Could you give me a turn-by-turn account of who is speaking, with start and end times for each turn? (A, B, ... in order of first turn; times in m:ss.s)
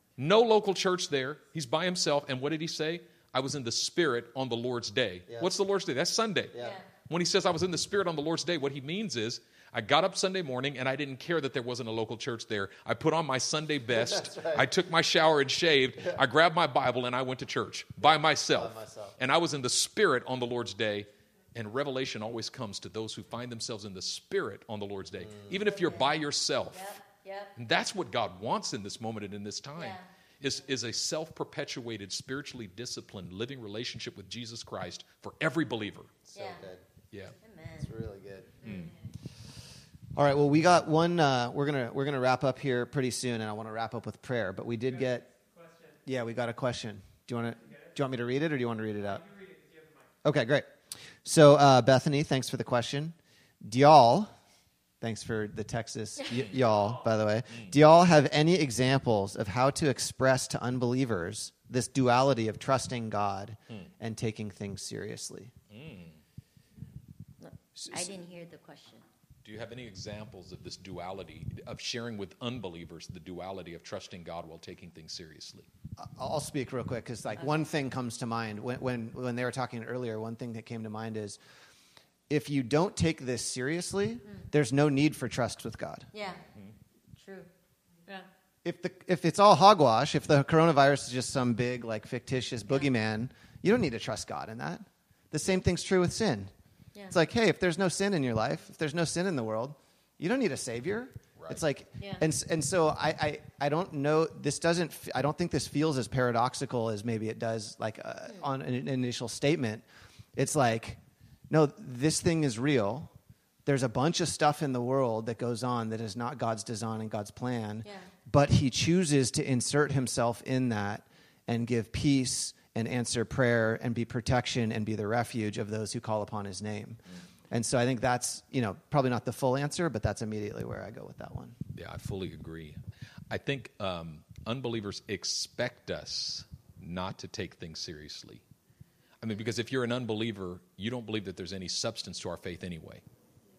0:00.2-0:27.0 A
0:06.5-0:06.8 B
0:06.6-0:06.8 C
0:13.9-0:14.7 B
0:18.0-0:19.2 B
0:25.6-0:26.1 C
0:26.7-0:27.6 C
0:27.6-0:36.2 A
0:29.8-0:30.0 C
0:36.2-0:36.8 B
0:36.4-0:36.6 C
0:37.4-0:37.9 C
0:37.8-0:38.6 B
0:38.6-0:38.9 C
0:38.6-0:38.9 A
0:40.2-0:45.3 B
0:46.1-0:49.4 B
0:50.2-0:50.7 B
0:51.2-0:54.3 B
0:55.0-1:05.5 B
1:05.7-1:06.2 A
1:07.4-1:09.0 C
1:07.8-1:08.1 B
1:09.4-1:15.7 A
1:16.0-1:21.4 B
1:22.3-1:26.1 B
1:26.1-1:26.4 C
1:27.2-1:27.5 C
1:28.6-1:36.5 B
1:37.1-1:49.8 B
1:41.4-1:41.6 A
1:42.0-1:42.2 C
1:50.4-1:51.0 B
1:51.5-1:53.1 B
1:53.7-2:11.6 B
2:11.8-2:12.8 A
2:13.3-2:18.4 A
2:19.2-2:23.0 A